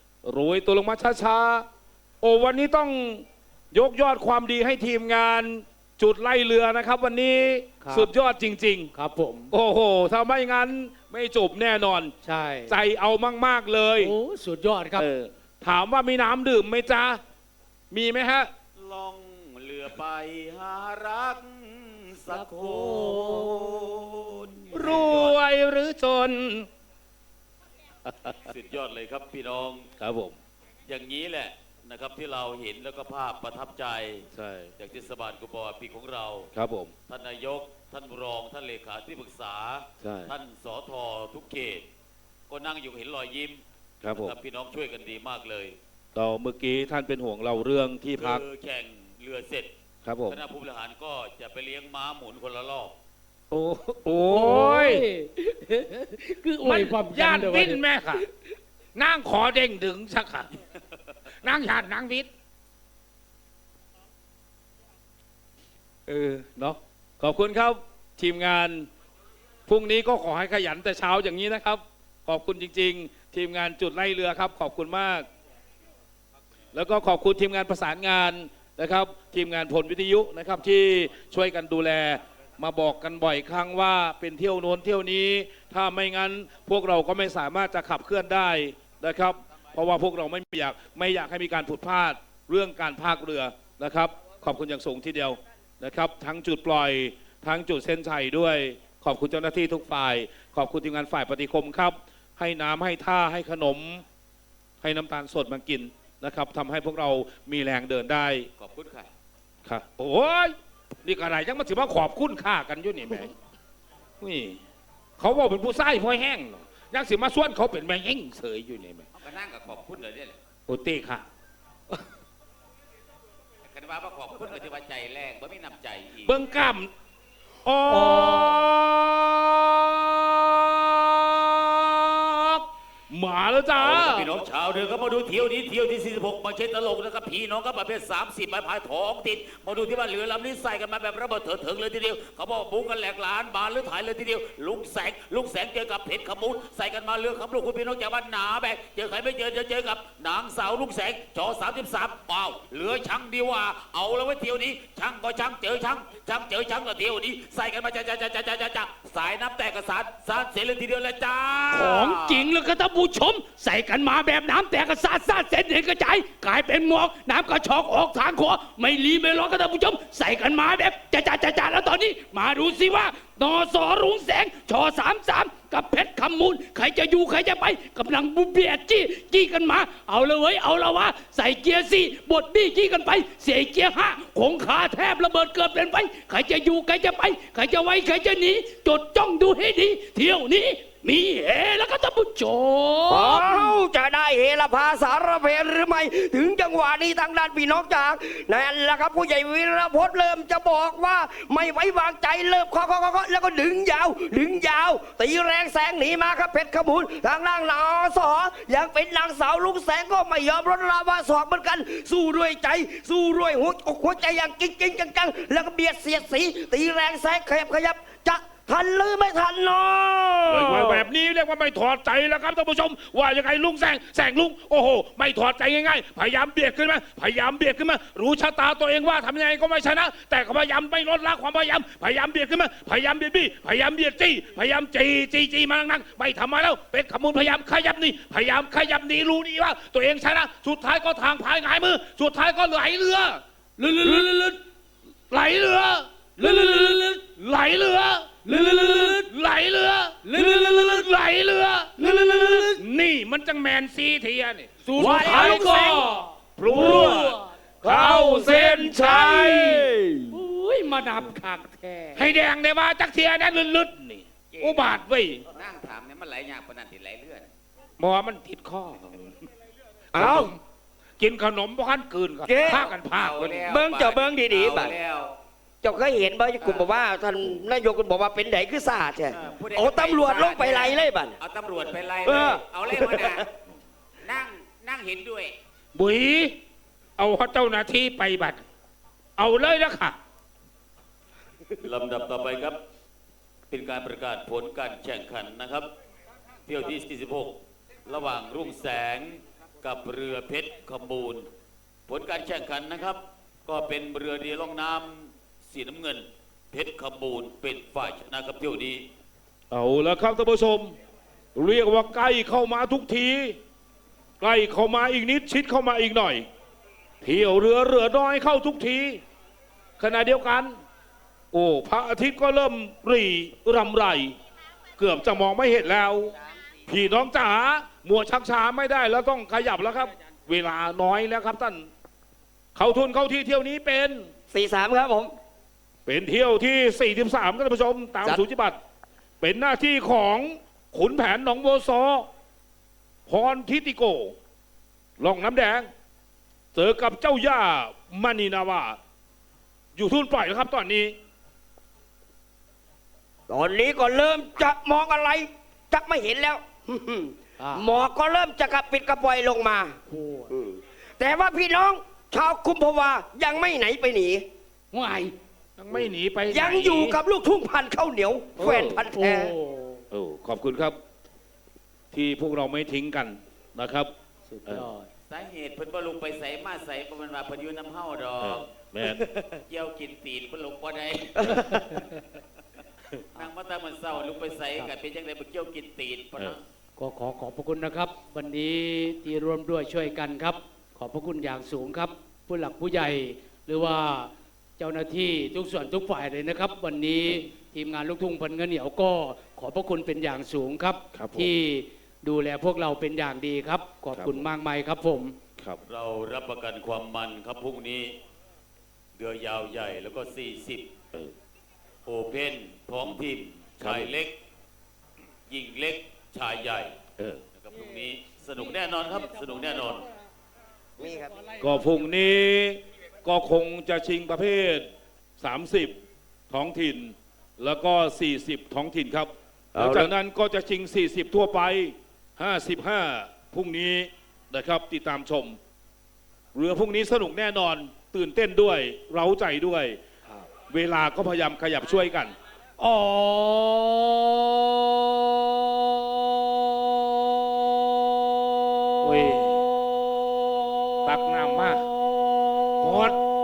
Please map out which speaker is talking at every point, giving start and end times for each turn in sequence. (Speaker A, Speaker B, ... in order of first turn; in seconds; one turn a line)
Speaker A: 0.2-1.7
Speaker A: 2.2-8.9
Speaker B: 7.8-8.1
Speaker B: 8.9-9.5
Speaker A: 9.5-12.1
Speaker B: 12.2-12.8
Speaker A: 12.7-14.2
Speaker B: 14.0-15.1
Speaker A: 15.0-17.2
Speaker A: 17.9-18.5
Speaker C: 18.8-25.4
Speaker B: 22.3-23.7
Speaker A: 24.7-26.7
Speaker A: 28.1-28.4
Speaker C: 28.4-29.9
Speaker A: 30.0-30.4
Speaker C: 30.9-34.3
Speaker A: 34.3-34.7
Speaker C: 34.8-36.5
Speaker A: 36.5-36.9
Speaker C: 37.1-41.9
Speaker A: 40.0-40.3
Speaker C: 42.5-45.8
Speaker A: 44.0-44.4
Speaker A: 46.1-48.4
Speaker C: 48.2-49.7
Speaker A: 50.0-50.4
Speaker C: 50.3-53.0
Speaker A: 53.5-55.0
Speaker B: 54.3-57.8
Speaker A: 56.6-58.2
Speaker A: 59.0-60.5
Speaker A: 61.4-62.3
Speaker A: 66.1-68.9
Speaker A: 69.7-75.3
Speaker A: 76.7-104.0
Speaker A: 104.8-108.5
Speaker C: 108.6-109.1
Speaker A: 109.7-113.3
Speaker A: 114.2-114.6
Speaker A: 115.2-119.1
Speaker C: 119.1-120.4
Speaker A: 120.7-121.3
Speaker C: 123.6-126.4
Speaker A: 126.2-126.9
Speaker A: 127.7-134.3
Speaker B: 127.9-128.7
Speaker C: 133.8-162.5
Speaker B: 161.7-193.8
Speaker D: 193.1-221.1
Speaker A: 220.5-243.4
Speaker B: 243.8-244.6
Speaker A: 245.3-259.9
Speaker B: 246.4-247.2
Speaker B: 248.4-249.3
Speaker B: 250.2-251.0
Speaker B: 252.0-252.8
Speaker B: 254.8-259.6
Speaker D: 255.0-255.8
Speaker D: 257.9-258.2
Speaker D: 259.1-260.4
Speaker B: 260.3-262.2
Speaker A: 262.2-265.4
Speaker C: 264.5-267.5
Speaker A: 268.0-269.4
Speaker A: 270.1-270.6
Speaker D: 270.1-270.5
Speaker A: 271.2-273.6
Speaker D: 272.5-272.9
Speaker C: 272.7-275.4
Speaker D: 273.7-275.0
Speaker D: 275.8-281.4
Speaker C: 276.6-276.9
Speaker C: 279.3-283.5
Speaker D: 282.2-283.4
Speaker C: 284.2-285.6
Speaker A: 285.9-286.6
Speaker A: 287.2-288.6
Speaker A: 289.4-290.2
Speaker C: 291.8-292.8
Speaker C: 293.7-295.9
Speaker C: 296.7-301.5
Speaker C: 302.1-309.1
Speaker A: 309.7-311.0
Speaker A: 311.6-313.6
Speaker A: 314.4-316.5
Speaker A: 317.2-319.2
Speaker A: 320.0-320.8
Speaker A: 321.5-324.4
Speaker A: 325.0-326.3
Speaker A: 326.9-331.9
Speaker A: 332.8-334.3
Speaker D: 334.5-335.3
Speaker A: 336.1-338.8
Speaker A: 339.4-342.3
Speaker A: 343.3-344.4
Speaker A: 345.2-345.9
Speaker A: 346.8-349.0
Speaker A: 349.9-351.2
Speaker D: 353.5-360.0
Speaker B: 357.6-357.9
Speaker B: 360.1-360.5
Speaker D: 360.5-364.4
Speaker B: 364.9-365.4
Speaker A: 365.8-367.2
Speaker D: 365.9-369.5
Speaker A: 368.6-369.0
Speaker B: 369.1-370.0
Speaker A: 370.1-371.0
Speaker A: 372.1-374.1
Speaker B: 374.5-375.1
Speaker C: 375.3-378.7
Speaker A: 378.4-379.2
Speaker D: 379.0-379.5
Speaker C: 379.7-382.0
Speaker D: 381.4-382.0
Speaker C: 383.3-386.6
Speaker B: 387.0-405.4
Speaker A: 401.1-401.5
Speaker A: 404.1-404.5
Speaker C: 405.8-408.2
Speaker C: 409.2-410.9
Speaker C: 412.1-414.4
Speaker A: 413.8-414.1
Speaker C: 415.5-416.9
Speaker C: 417.6-420.1
Speaker D: 421.0-421.4
Speaker A: 421.6-424.9
Speaker A: 425.4-426.0
Speaker A: 426.5-435.6
Speaker D: 429.8-430.1
Speaker A: 436.5-440.0
Speaker A: 440.5-442.4
Speaker B: 442.8-447.5
Speaker A: 449.0-449.7
Speaker B: 450.2-453.1
Speaker A: 451.1-451.8
Speaker A: 452.8-453.2